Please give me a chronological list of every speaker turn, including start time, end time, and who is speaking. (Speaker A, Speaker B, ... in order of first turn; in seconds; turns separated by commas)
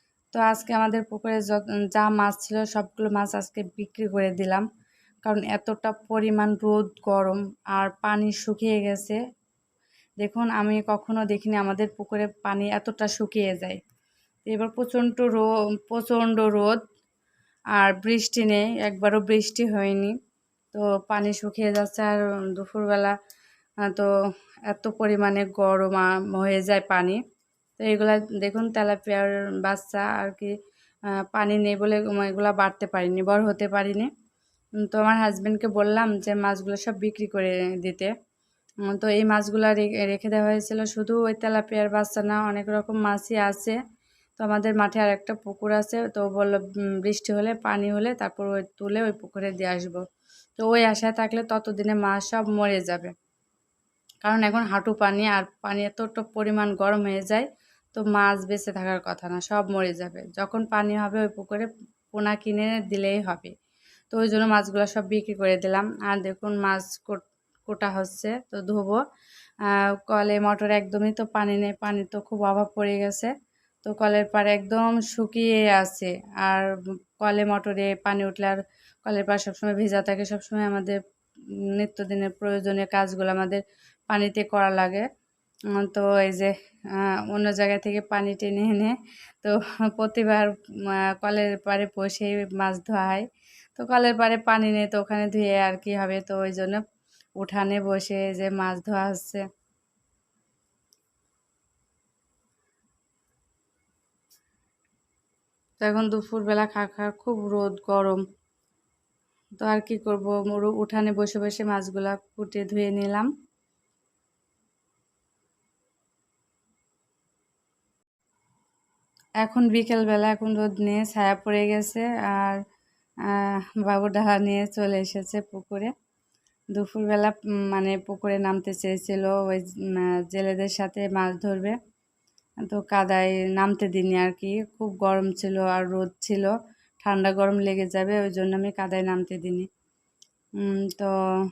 Speaker A: 0.3-4.7, Speaker A: 5.2-9.2, Speaker A: 10.2-13.8, Speaker A: 14.4-16.8, Speaker A: 17.8-20.1, Speaker A: 20.7-23.1, Speaker A: 24.7-27.2, Speaker A: 27.8-30.5, Speaker A: 31.3-34.1, Speaker A: 34.8-38.1, Speaker A: 38.9-43.8, Speaker A: 44.4-50.0, Speaker A: 50.6-53.1, Speaker A: 54.2-63.5, Speaker A: 64.1-69.0, Speaker A: 69.7-73.3, Speaker A: 73.8-76.7, Speaker A: 77.2-81.0, Speaker A: 81.7-85.1, Speaker A: 85.7-96.8, Speaker A: 97.4-99.4, Speaker A: 105.8-108.2, Speaker A: 109.6-113.3, Speaker A: 119.4-122.6, Speaker A: 123.3-125.9, Speaker A: 126.7-131.8, Speaker A: 132.7-139.7, Speaker A: 140.6-141.1